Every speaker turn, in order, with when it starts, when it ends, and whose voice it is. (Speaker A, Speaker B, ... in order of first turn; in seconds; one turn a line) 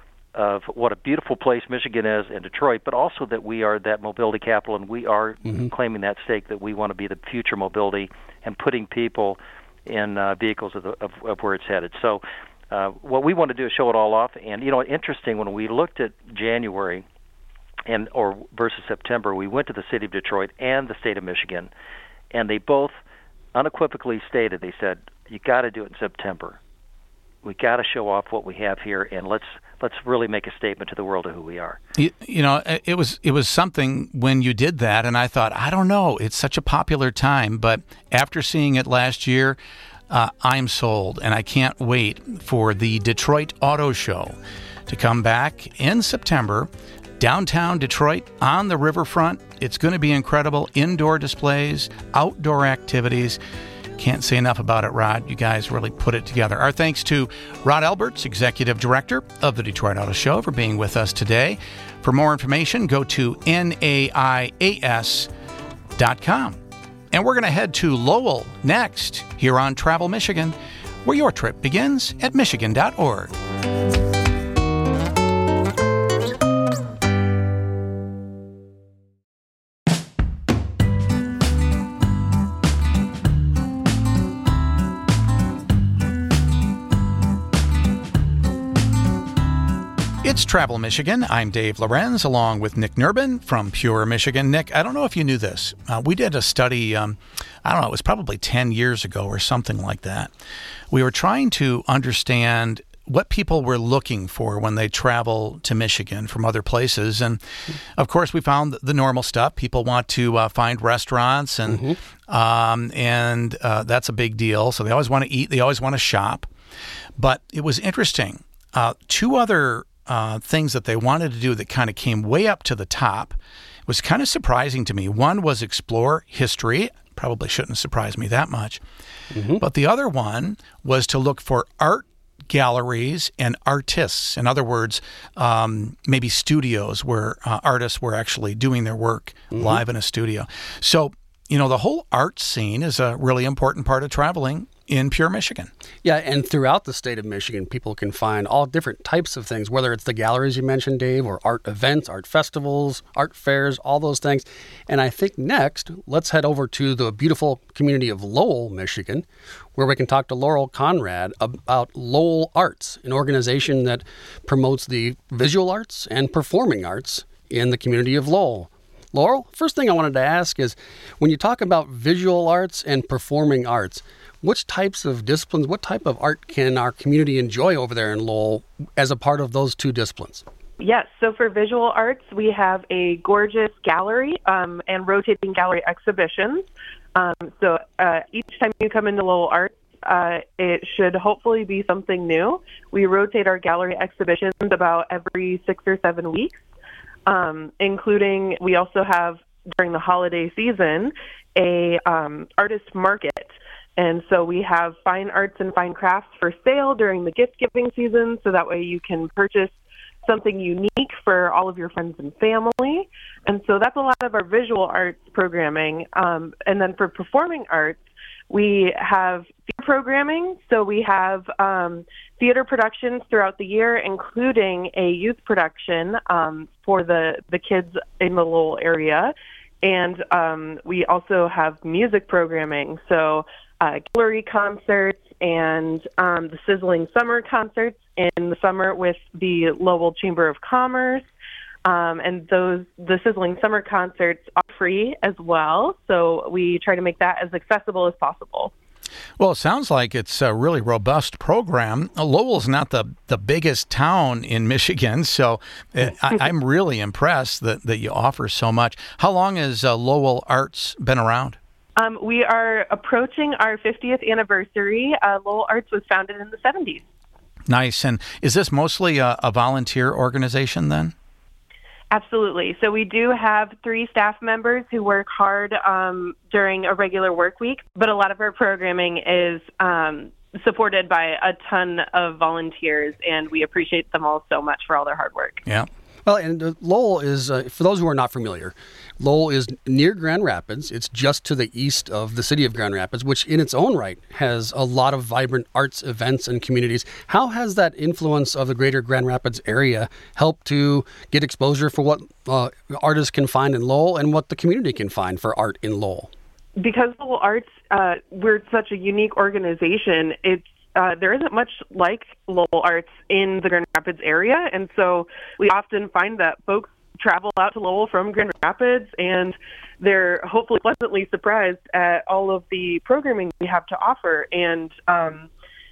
Speaker A: 0.3-17.0
Speaker A: 17.9-21.7
Speaker A: 22.3-22.9
Speaker A: 23.5-26.6
Speaker A: 27.4-31.8
Speaker B: 32.0-39.6
Speaker B: 40.1-44.4
Speaker B: 44.9-53.4
Speaker B: 54.0-65.3
Speaker B: 66.0-66.6
Speaker B: 67.1-73.3
Speaker B: 90.2-100.3
Speaker B: 100.9-116.5
Speaker C: 111.7-112.0
Speaker B: 117.2-128.8
Speaker C: 129.3-129.6
Speaker B: 129.6-145.7
Speaker C: 139.5-139.8
Speaker C: 146.0-180.4
Speaker D: 180.8-196.6
Speaker D: 197.2-218.0
Speaker D: 218.5-241.2
Speaker D: 241.8-248.7
Speaker B: 249.4-261.6
Speaker D: 262.0-267.0
Speaker B: 267.7-271.1
Speaker D: 272.1-285.6
Speaker C: 286.2-306.3
Speaker D: 306.8-325.5